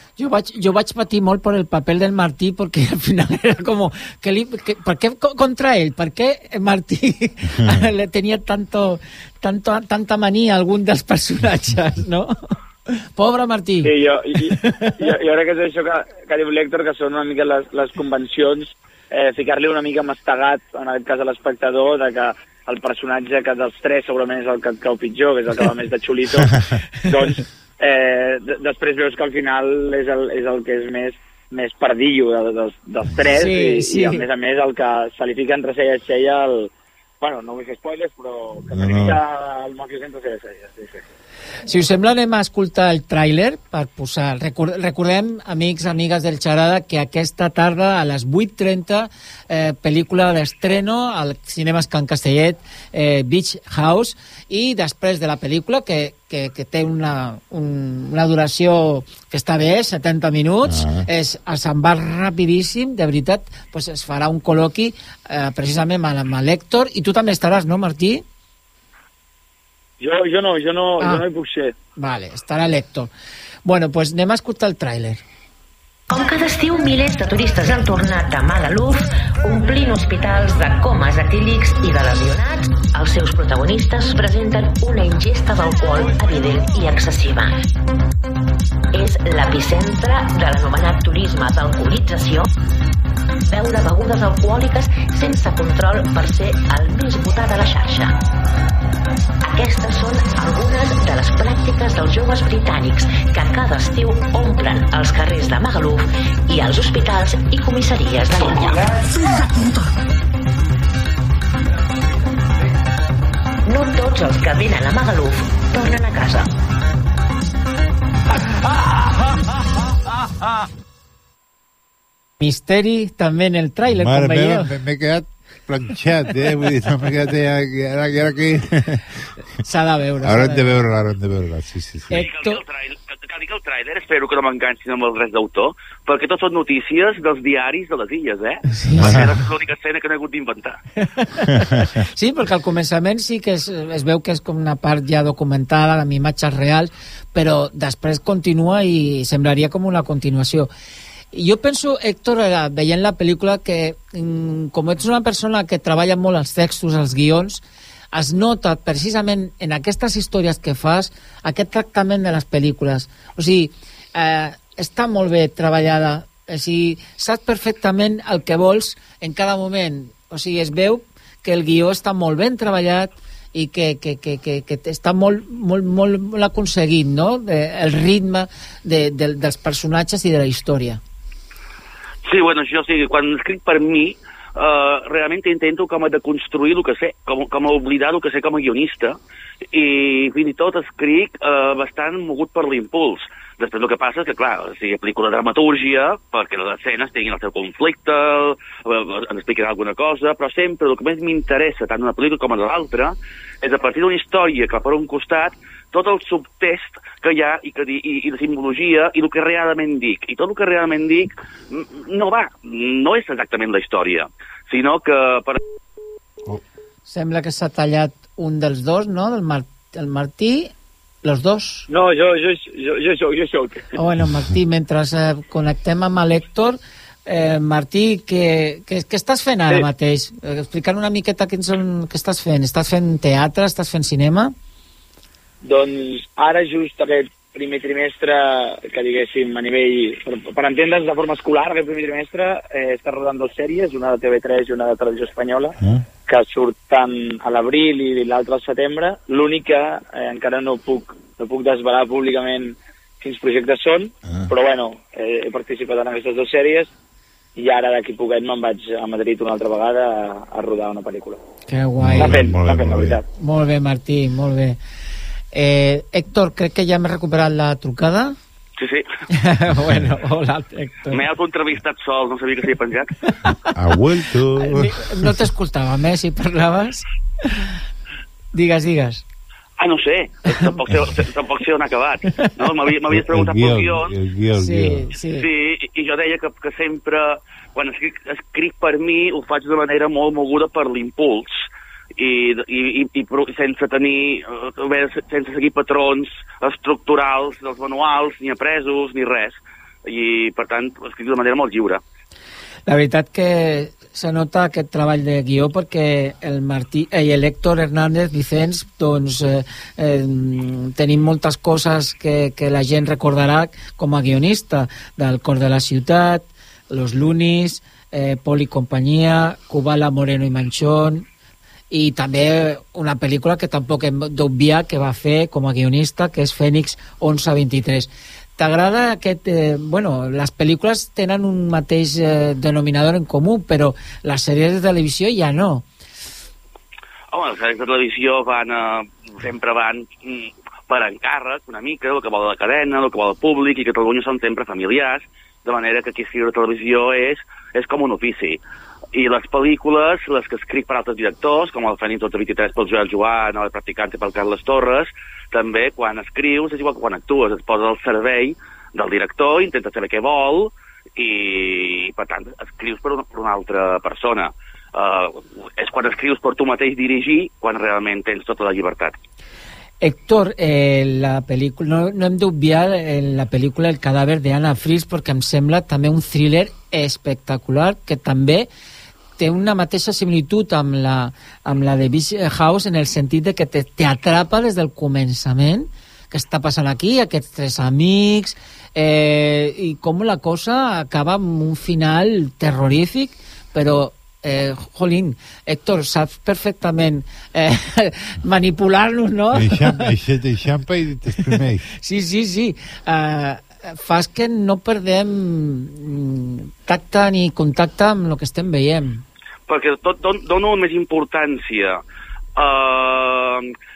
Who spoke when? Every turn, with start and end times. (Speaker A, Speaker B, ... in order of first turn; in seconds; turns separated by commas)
Speaker A: 0.2-15.1, Speaker B: 13.8-41.0, Speaker A: 33.3-34.3, Speaker C: 38.7-39.2, Speaker A: 41.7-68.2, Speaker C: 60.6-61.1, Speaker B: 70.0-71.8, Speaker A: 72.0-73.1, Speaker A: 73.7-75.2, Speaker D: 76.1-87.5, Speaker D: 88.9-92.5, Speaker D: 93.5-98.2, Speaker D: 99.5-109.1, Speaker D: 113.7-116.5, Speaker A: 122.4-124.7, Speaker C: 123.9-129.2, Speaker A: 129.6-130.8, Speaker C: 130.2-132.3, Speaker A: 132.1-132.6, Speaker E: 132.2-140.8, Speaker A: 138.7-139.3, Speaker C: 139.0-139.4, Speaker A: 141.0-150.7, Speaker A: 151.3-181.0, Speaker E: 182.3-189.2, Speaker E: 189.7-215.6, Speaker A: 217.1-220.7, Speaker A: 221.2-221.9, Speaker B: 221.9-224.0, Speaker A: 224.0-234.5, Speaker B: 235.6-245.8, Speaker B: 246.3-256.9, Speaker B: 257.6-261.4, Speaker A: 261.7-262.5, Speaker C: 262.0-263.2, Speaker B: 262.2-263.2, Speaker A: 263.4-264.8, Speaker A: 265.5-268.4, Speaker E: 268.8-269.1, Speaker A: 269.3-271.2, Speaker C: 269.7-270.1, Speaker E: 271.1-273.1, Speaker A: 273.3-273.6, Speaker C: 273.7-275.3, Speaker A: 274.6-277.7, Speaker A: 278.5-279.2, Speaker E: 279.8-284.1, Speaker C: 283.1-285.1, Speaker A: 284.6-285.5, Speaker E: 285.3-302.0, Speaker A: 302.9-321.3, Speaker A: 321.9-335.9, Speaker E: 337.3-369.1, Speaker A: 370.0-378.7, Speaker A: 379.4-400.1, Speaker C: 399.5-401.9, Speaker A: 401.5-409.2, Speaker E: 409.7-412.0, Speaker E: 412.6-413.7